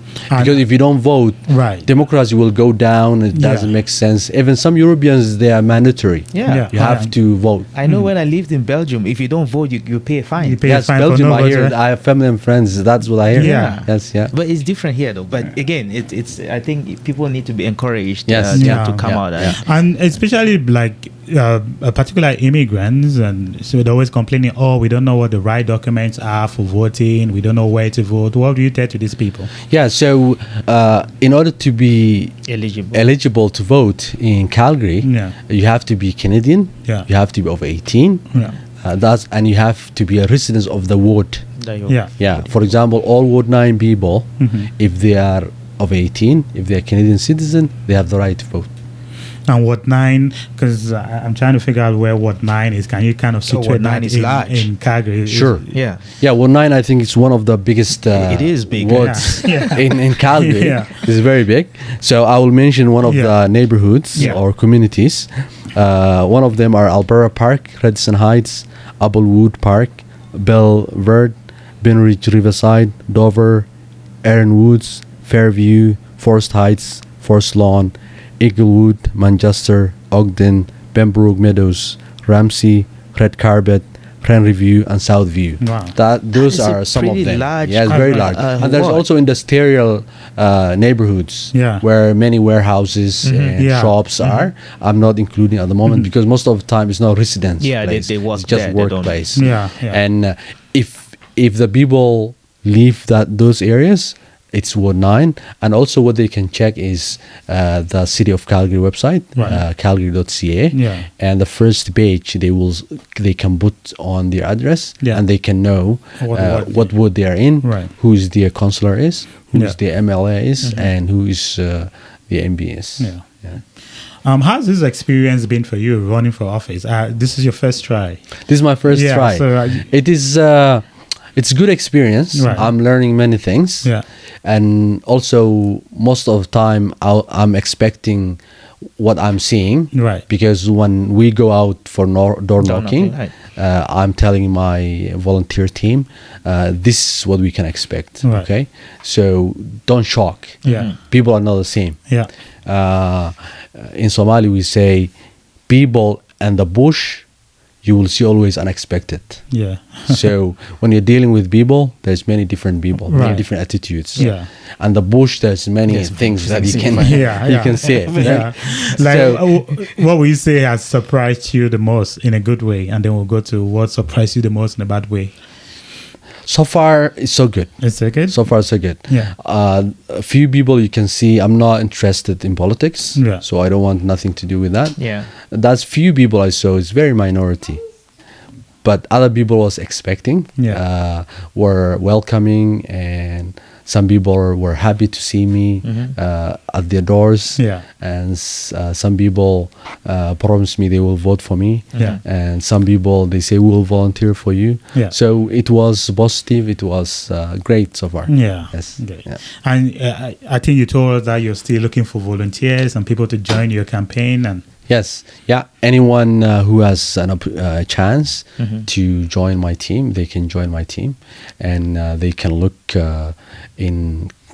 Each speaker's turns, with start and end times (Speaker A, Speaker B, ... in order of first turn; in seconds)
Speaker A: 0.3-0.6, 1.5-1.9, 3.3-3.7, 6.5-7.1, 10.4-11.8, 13.3-13.8, 18.5-29.5, 35.0-35.4, 44.4-44.7, 49.5-55.7, 58.9-61.1, 63.0-63.4, 85.6-86.0, 87.9-88.3, 91.5-91.8, 93.6-94.0, 99.3-100.0, 109.3-109.6, 110.7-111.1, 116.2-117.0, 117.6-117.9, 123.0-123.2, 124.2-128.3, 128.9-129.9, 132.3-132.7, 139.9-140.2, 148.2-148.5, 150.6-150.9, 159.5-160.3, 163.1-164.5, 167.0-175.3, 177.8-179.3, 183.2-183.4, 190.6-190.8, 197.6-197.8, 208.3-214.6
Speaker B: 0.3-7.7, 10.7-14.3, 18.3-19.6, 29.6-32.4, 32.9-38.2, 38.8-41.5, 42.2-48.7, 55.3-73.7, 74.2-123.6, 128.4-130.8, 131.3-133.9, 134.4-138.4, 139.0-152.0, 152.7-155.1, 155.7-157.2, 157.8-159.4, 160.1-169.4, 176.5-187.8, 188.8-209.4, 214.9-224.3
Speaker C: 6.3-6.7, 7.7-10.6, 13.4-19.6, 32.4-33.1, 41.6-42.5, 53.5-54.7, 55.7-56.0, 58.1-59.8, 86.4-89.0, 93.2-93.6, 97.6-99.4, 120.6-120.9, 142.6-143.3, 150.7-150.9, 165.9-169.0, 185.0-185.3, 195.8-196.2, 201.9-202.2, 218.6-218.9